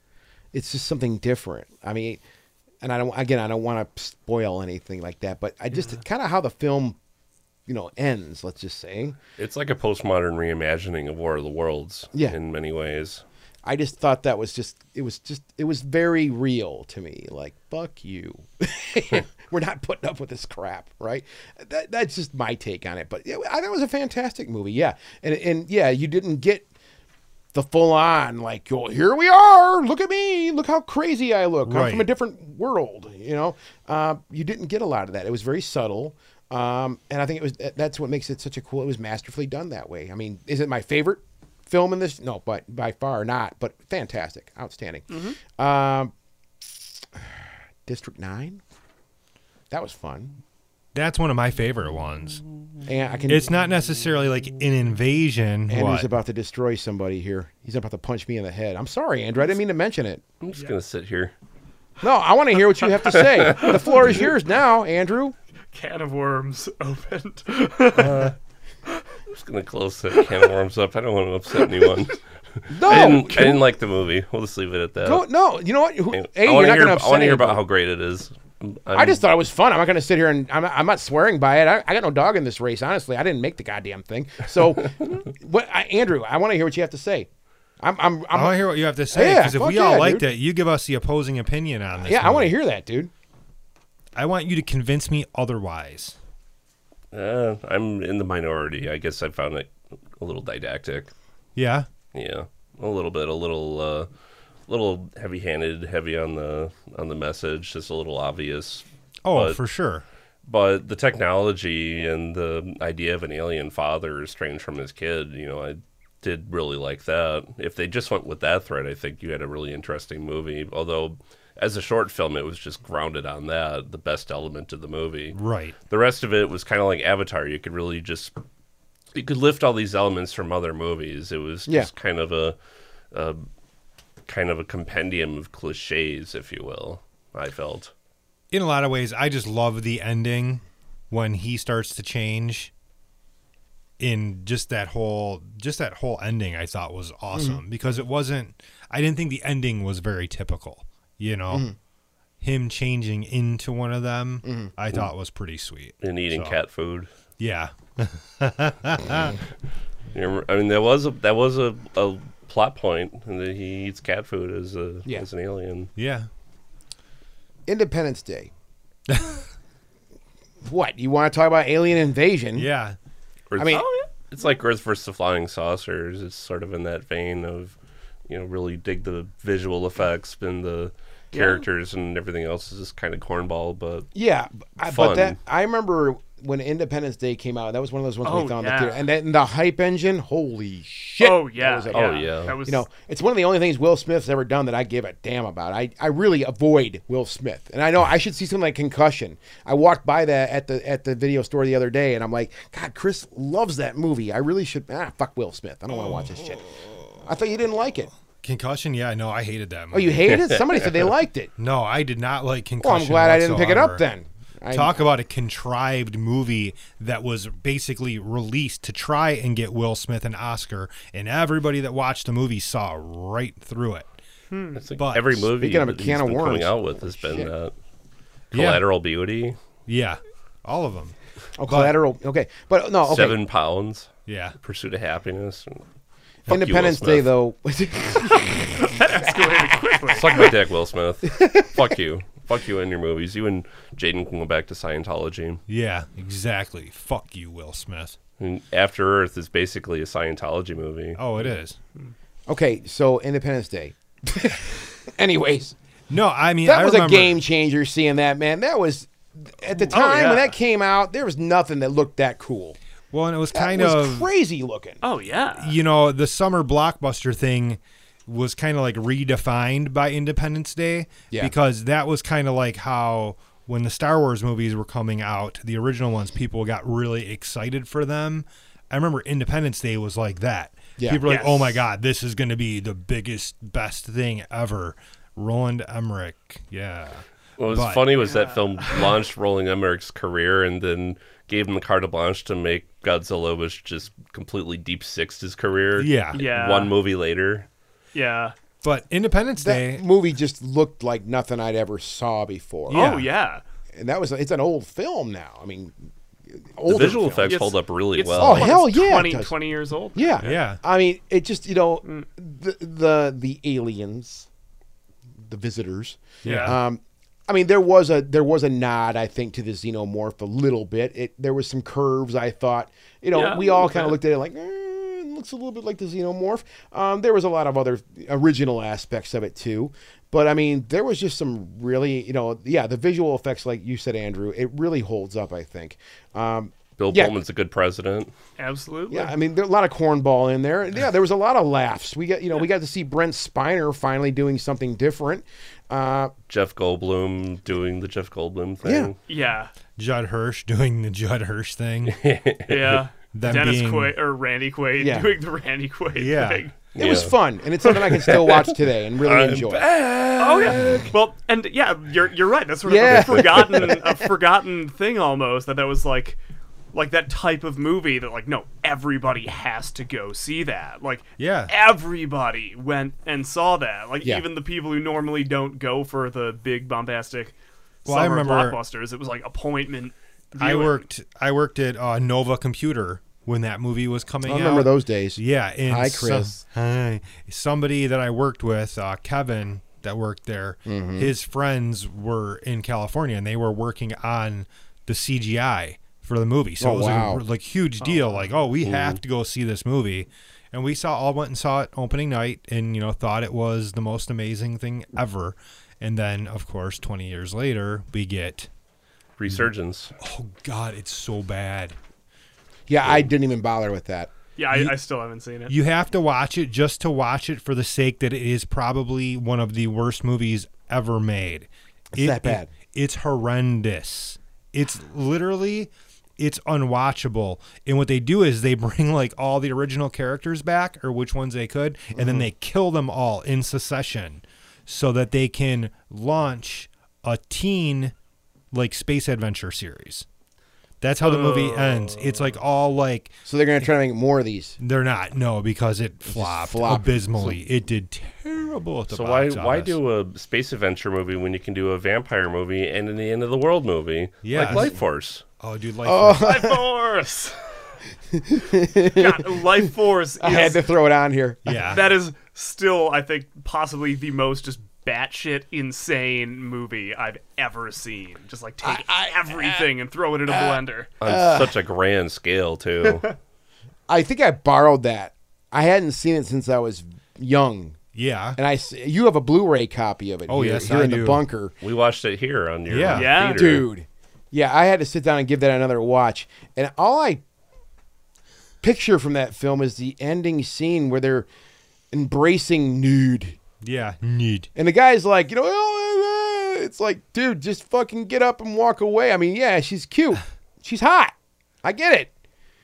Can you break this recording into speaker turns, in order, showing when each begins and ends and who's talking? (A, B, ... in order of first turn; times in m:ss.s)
0:00.5-0:02.2 A
0:02.8-0:07.0 A
0:07.7-0:09.2 A
0:09.4-0:13.2 B
0:13.6-0:26.7 A
0:27.5-0:46.1 A
0:31.7-0:32.1 C
0:45.1-0:45.4 D
0:47.9-0:48.6 A
0:49.7-0:50.4 A
0:50.9-0:52.4 C
0:52.9-0:53.5 A
0:53.3-0:56.1 C
0:55.7-1:00.2 A
1:00.4-1:01.3 B
1:02.0-1:05.4 A
1:03.1-1:04.0 B
1:05.7-1:08.3 D
1:07.9-1:08.4 B
1:09.3-1:15.2 B
1:10.2-1:10.5 D
1:11.6-1:11.9 D
1:12.7-1:13.6 A
1:15.0-1:17.6 A
1:16.1-1:19.2 B
1:18.9-1:27.3 A
1:27.8-1:30.3 A
1:28.3-1:32.5 C
1:32.0-1:33.1 A
1:34.2-1:36.2 C
1:37.1-1:41.1 B
1:41.6-1:41.9 C
1:42.1-1:44.1 B
1:44.7-1:49.6 B
1:49.2-1:50.0 C
1:50.5-2:08.4 B
2:05.3-2:05.8 C
2:09.1-2:12.6 B
2:13.1-2:13.4 B
2:14.3-2:17.9 B
2:18.5-2:22.7 C
2:24.0-2:31.7 C
2:27.3-2:27.6 A
2:31.5-2:31.8 A
2:32.4-2:36.6 C
2:34.4-2:34.7 A
2:36.0-2:37.1 B
2:37.4-2:39.4 C
2:40.1-2:45.9 B
2:46.0-2:46.3 C
2:47.7-2:48.5 A
2:49.1-2:49.4 C
2:50.6-2:52.7 A
2:52.6-2:53.0 C
2:53.5-2:57.8 B
2:53.6-2:53.9 A
2:53.7-2:54.1 D
2:58.3-3:04.1 B
3:01.3-3:01.7 D
3:04.2-3:26.7 A
3:04.8-3:05.4 B
3:08.2-3:09.0 D
3:11.2-3:12.8 D
3:11.9-3:12.6 B
3:27.2-3:28.1 A
3:28.4-3:30.4 C
3:29.9-3:31.5 A
3:31.6-3:34.0 C
3:32.8-3:35.0 A
3:34.7-3:44.1 C
3:44.5-3:44.8 D
3:44.8-3:47.7 B
3:45.0-3:45.4 C
3:45.4-3:47.5 A
3:48.5-3:48.8 C
3:48.5-3:49.6 B
3:49.9-3:51.2 C
3:51.6-3:53.4 A
3:51.7-3:52.0 C
3:53.1-3:54.1 B
3:54.3-3:54.6 C
3:54.6-3:55.8 B
3:56.5-3:57.3 B
3:56.5-4:00.5 A
3:58.8-4:00.5 D
4:00.1-4:05.6 B
4:01.3-4:01.7 A
4:05.7-4:08.2 C
4:08.4-4:11.2 B
4:11.2-4:11.8 C
4:12.5-4:15.8 A
4:16.1-4:17.4 C
4:16.6-4:22.8 A
4:19.9-4:20.6 D
4:23.1-4:24.3 C
4:23.5-4:25.0 A
4:25.0-4:25.8 D
4:25.6-4:48.1 C
4:41.0-4:41.2 A
4:41.2-4:41.8 D
4:47.6-4:57.7 B
4:48.2-4:49.1 D
4:56.0-4:56.4 C
4:56.3-4:56.9 D
4:58.1-4:58.6 D
4:58.8-5:00.0 C
4:59.6-5:03.1 A
5:02.9-5:03.3 C
5:02.9-5:03.6 D
5:04.0-5:06.0 A
5:06.5-5:07.6 A
5:06.9-5:08.8 B
5:07.5-5:10.6 D
5:08.3-5:09.6 A
5:10.1-5:14.5 A
5:10.4-5:10.8 C
5:15.4-5:37.4 A
5:16.4-5:16.8 D
5:16.4-5:16.8 C
5:23.3-5:24.2 D
5:37.0-5:38.3 B
5:38.6-5:39.3 D
5:39.1-5:46.3 A
5:46.5-5:49.2 B
5:48.8-5:49.1 A
5:49.3-5:49.7 D
5:50.0-5:52.2 C
5:52.0-5:53.0 B
5:52.7-5:56.8 D
5:53.3-5:54.2 C
5:55.0-5:55.3 A
5:56.2-5:56.6 C
5:57.0-5:57.3 B
5:57.0-5:59.8 A
5:58.0-5:58.6 B
5:59.2-6:01.1 B
6:00.4-6:06.4 D
6:02.9-6:04.2 A
6:03.1-6:03.6 B
6:06.9-6:21.0 D
6:11.4-6:11.7 C
6:18.1-6:18.8 C
6:20.6-6:48.7 C
6:24.5-6:26.6 A
6:30.9-6:31.3 A
6:36.8-6:37.4 A
6:38.0-6:38.5 D
6:38.8-6:39.2 B
6:49.4-6:50.2 B
6:50.2-6:52.0 C
6:52.9-6:54.3 A
6:54.6-6:55.8 D
6:55.7-7:18.1 C
7:02.1-7:02.7 A
7:12.1-7:12.5 A
7:18.7-7:20.3 C
7:21.0-7:23.4 C
7:21.2-7:22.4 D
7:23.5-7:24.8 A
7:24.8-7:30.0 C
7:26.3-7:27.6 A
7:29.1-7:35.4 B
7:34.4-7:34.9 C
7:35.6-7:36.5 C
7:36.0-7:36.9 A
7:36.4-7:37.9 D
7:38.3-7:39.9 A
7:39.0-7:40.8 D
7:40.4-7:42.0 A
7:41.6-7:42.1 C
7:41.9-7:51.1 D
7:48.8-7:49.9 A
7:50.5-7:51.8 A
7:51.2-7:53.3 B
7:54.1-7:58.0 A
7:58.2-7:58.6 C
7:58.6-8:01.8 A
8:00.5-8:01.4 C
8:01.8-8:03.9 B
8:02.9-8:03.3 C
8:03.1-8:03.6 D
8:03.5-8:07.4 A
8:08.8-8:11.5 A
8:12.1-8:13.6 A
8:13.8-8:14.7 C
8:14.8-8:21.3 A
8:21.8-8:22.3 A